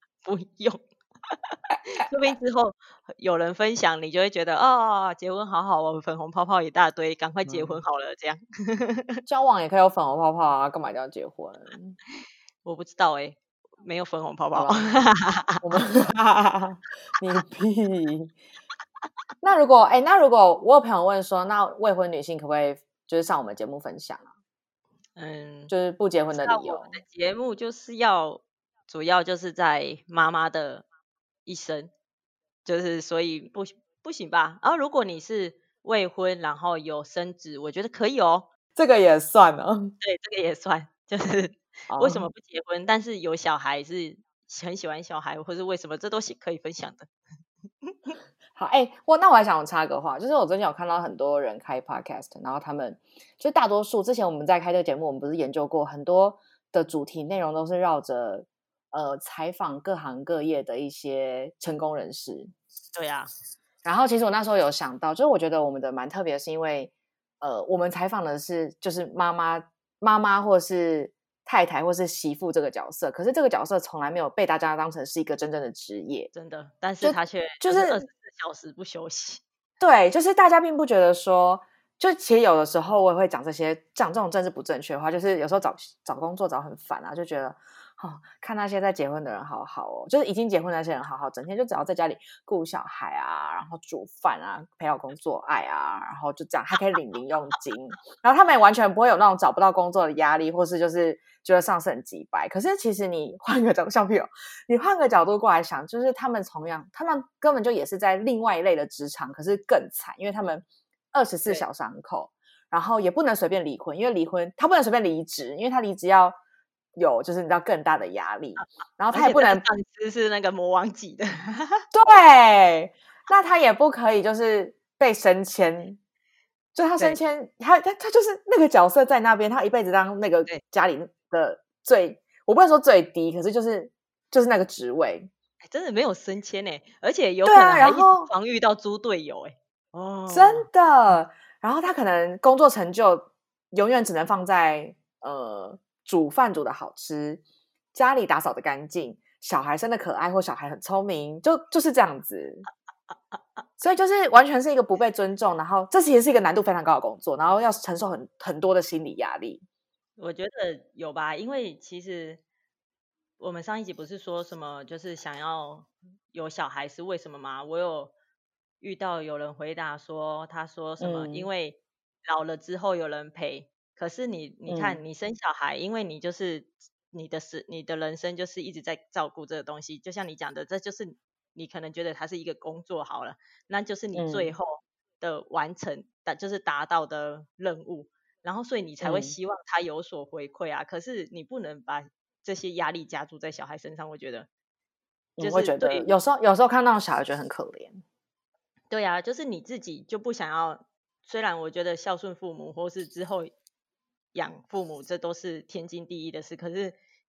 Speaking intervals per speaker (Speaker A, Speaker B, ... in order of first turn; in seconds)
Speaker A: 0.2-9.2, 12.7-15.6, 25.2-25.7, 26.3-30.9, 31.5-31.9, 32.6-38.5, 40.0-47.1, 47.9-48.2, 63.0-63.3, 76.3-79.4, 119.1-121.8, 135.6-140.7, 160.2-162.4, 163.4-168.1, 168.8-194.5, 195.4-196.1, 198.9-203.5, 204.3-207.0
Speaker B: 7.5-7.8, 9.3-12.0, 14.6-14.9, 15.6-18.4, 19.4-24.3, 25.7-27.0, 38.8-40.0, 41.9-42.3, 48.5-62.5, 63.8-76.3, 77.0-78.0, 79.8-116.4, 117.0-119.7, 121.9-126.0, 126.8-135.3, 137.4-138.3, 140.3-147.4, 147.9-152.7, 153.8-159.6, 171.0-171.5, 174.7-175.0, 184.1-184.6, 189.0-189.4, 195.4-198.0